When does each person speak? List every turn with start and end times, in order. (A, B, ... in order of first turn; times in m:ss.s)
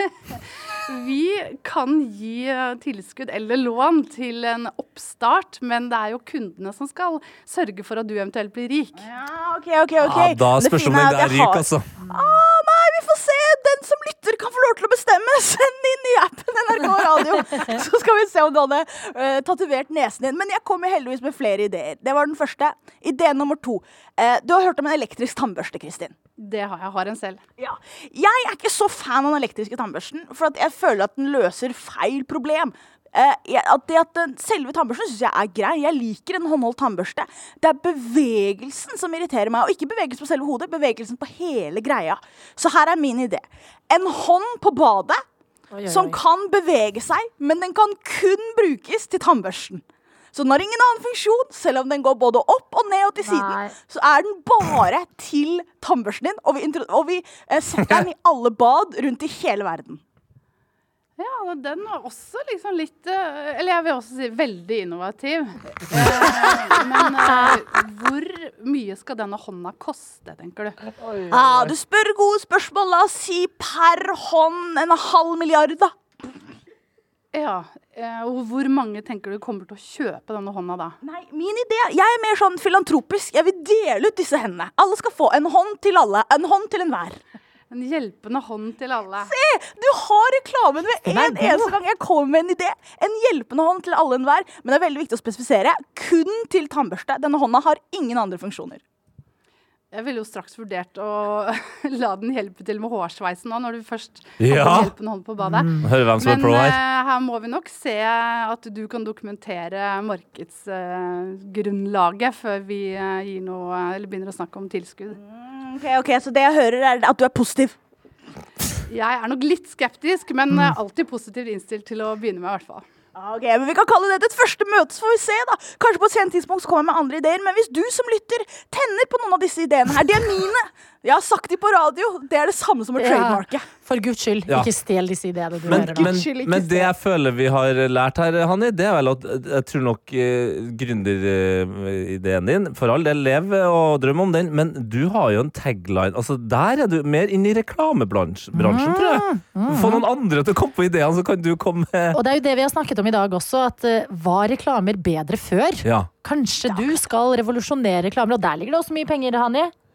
0:00.9-0:09.1 A
0:09.0-0:26.2 B
0:10.0-0:12.0 C
0:26.4-0:27.4 A
0:27.6-0:45.2 B
0:45.7-0:46.2 D
0:45.9-1:00.0 B
0:53.2-0:53.8 D
1:01.2-1:10.8 A
1:11.2-1:16.0 B
1:17.3-1:21.0 A
1:21.0-1:27.2 B
1:27.7-1:29.3 A
1:29.2-1:38.8 B
1:31.1-1:31.7 D
1:39.9-1:55.2 A
1:44.4-1:44.9 C
1:45.4-1:45.8 D
1:45.8-1:46.8 C
1:55.1-1:57.8 B
1:58.9-2:02.8 A
2:03.2-2:13.7 B
2:13.0-2:16.2 D
2:15.7-2:16.9 B
2:15.7-2:32.2 C
2:28.5-2:30.0 D
2:32.1-2:39.7 D
2:35.8-2:36.1 C
2:36.7-2:37.0 B